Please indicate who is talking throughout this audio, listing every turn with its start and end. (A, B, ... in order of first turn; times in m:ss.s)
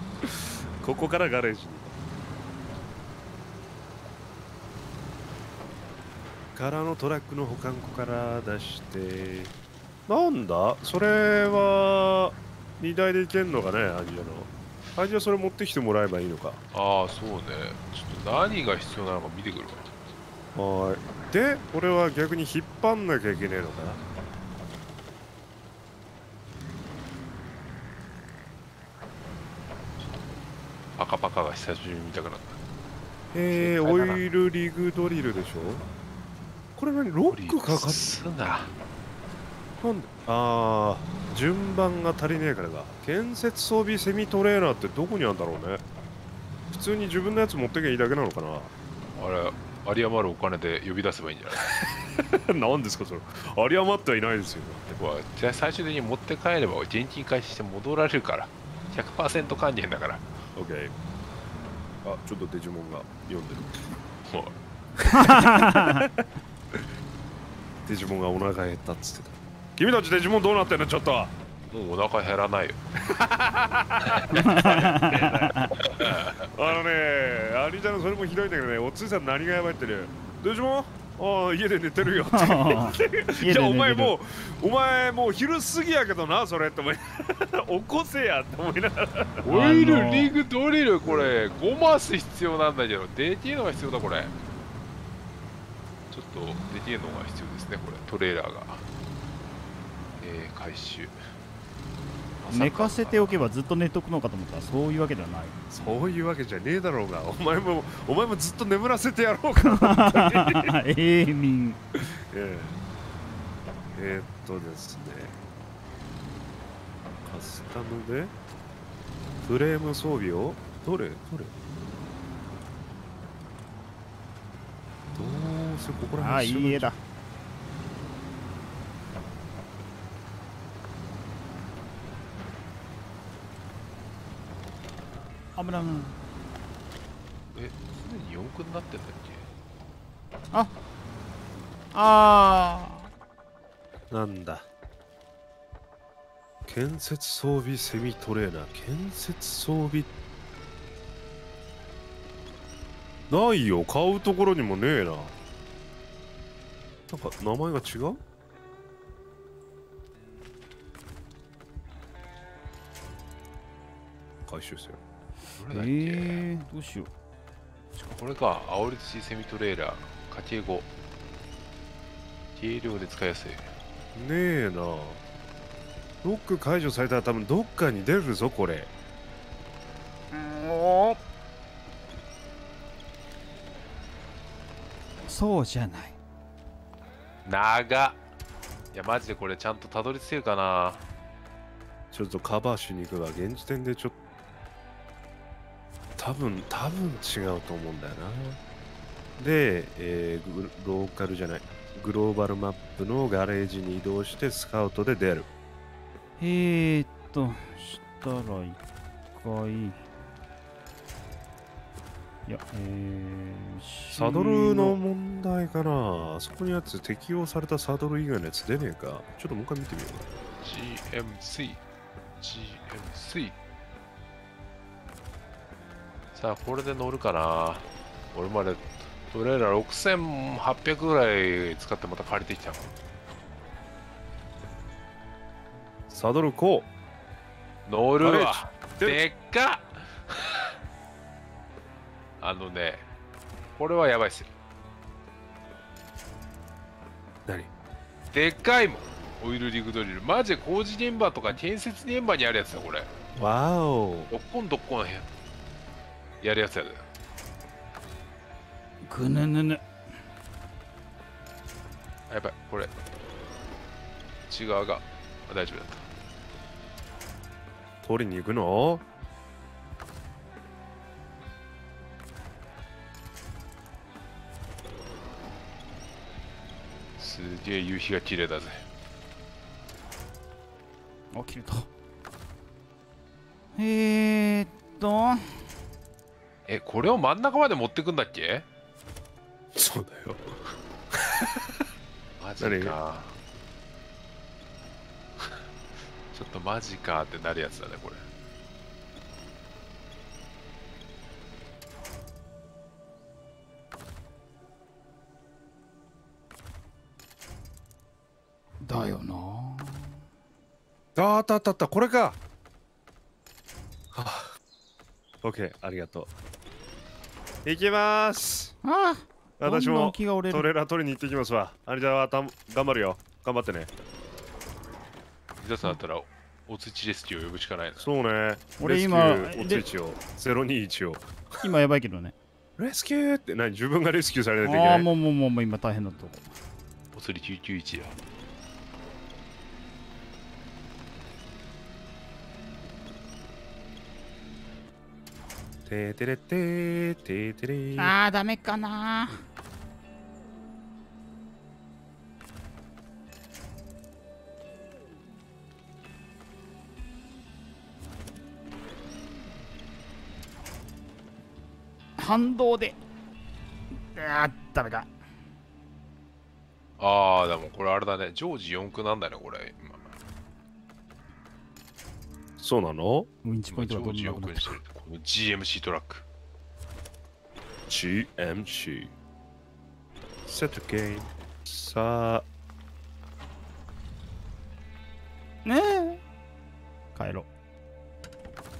0:00.2-0:01.9 A
0:06.6-0:09.5 A
0:10.1-0:16.6 A
0:16.7-0:20.0 B
0:20.6-0:24.0 A
0:31.0-0:32.6 B
0:33.3-0:35.8 A
0:33.5-0:34.2 B
0:36.8-0:38.2 A
0:37.3-0:38.7 B
0:39.8-0:45.8 A
0:46.7-0:48.7 A
0:49.2-0:51.7 B
0:51.6-0:55.0 A
0:55.0-1:00.3 B
1:00.6-1:00.9 A
1:02.0-1:04.0 A
1:04.3-1:04.6 B
1:05.0-1:06.9 A
1:05.1-1:06.1 C
1:07.8-1:11.3 A
1:11.7-1:12.8 B
1:13.0-1:29.4 A
1:14.0-1:14.9 B
1:14.4-1:15.8 C
1:15.8-1:16.5 B
1:22.1-1:24.1 C
1:29.4-1:34.4 B
1:29.5-1:30.3 C
1:31.0-1:31.3 A
1:36.1-1:38.8 B
1:40.2-1:41.2 B
1:42.4-1:43.4 B
1:42.5-1:45.6 C
1:45.7-1:50.7 A
1:49.6-1:51.8 C
1:52.0-1:52.8 A
1:53.9-1:55.4 A
1:57.3-1:58.3 A
1:59.4-2:01.6 A
2:05.2-2:06.9 A
2:06.2-2:07.0 C
2:15.6-2:16.2 C
2:17.5-2:19.5 B
2:21.9-2:23.1 C
2:24.1-2:24.6 A
2:26.7-2:30.1 A
2:33.3-2:35.3 A
2:37.1-2:38.2 A
2:44.5-2:45.0 A
2:45.6-2:46.5 B
2:45.7-2:47.1 C
2:48.0-2:50.9 B
2:52.6-2:53.7 B
2:54.2-2:55.2 A
2:56.2-2:58.9 A
3:00.3-3:01.2 C
3:05.3-3:06.2 C
3:07.4-3:08.2 B
3:08.9-3:11.0 B
3:12.1-3:14.2 A
3:16.2-3:18.6 A
3:19.4-3:25.5 A
3:26.4-3:28.8 C
3:29.3-3:30.0 C
3:32.5-3:35.0 C
3:34.1-3:40.2 A
3:40.6-3:41.8 B
3:42.4-3:43.6 B
3:46.4-3:52.9 B
3:56.1-3:56.9 A
3:57.9-4:00.7 B
3:58.2-3:59.2 A
4:02.4-4:03.0 B
4:03.8-4:04.5 B
4:08.3-4:13.2 B
4:13.4-4:14.3 A
4:14.3-4:15.3 B
4:16.4-4:17.0 B
4:19.0-4:19.8 C
4:22.3-4:22.9 B
4:24.5-4:26.1 B
4:28.0-4:29.0 A
4:37.2-4:38.8 B
4:41.3-4:41.9 C
4:43.8-4:45.6 C
4:46.7-4:48.6 B
4:49.7-4:51.9 A
4:52.4-4:53.3 B
4:52.6-4:53.0 A
4:56.3-4:58.2 B
5:08.8-5:10.2 C
5:11.2-5:12.4 A
5:14.1-5:14.5 A
5:15.4-5:16.3 A
5:17.6-5:18.8 A
5:18.8-5:20.7 C
5:19.6-5:23.9 A
5:25.6-5:28.1 B
5:28.0-5:31.3 A
5:28.8-5:29.8 C
5:31.6-5:32.4 C
5:32.8-5:35.1 A
5:34.6-5:36.5 C
5:37.1-5:38.2 B
5:45.9-5:48.2 A
5:48.0-5:49.4 C
6:02.2-6:03.0 C
6:04.2-6:05.1 C
6:07.0-6:10.1 B
6:12.6-6:13.3 A
6:13.4-6:14.8 C
6:13.7-6:16.2 B
6:17.9-6:19.1 A
6:20.5-6:22.5 A
6:25.6-6:26.2 C
6:27.2-6:27.5 C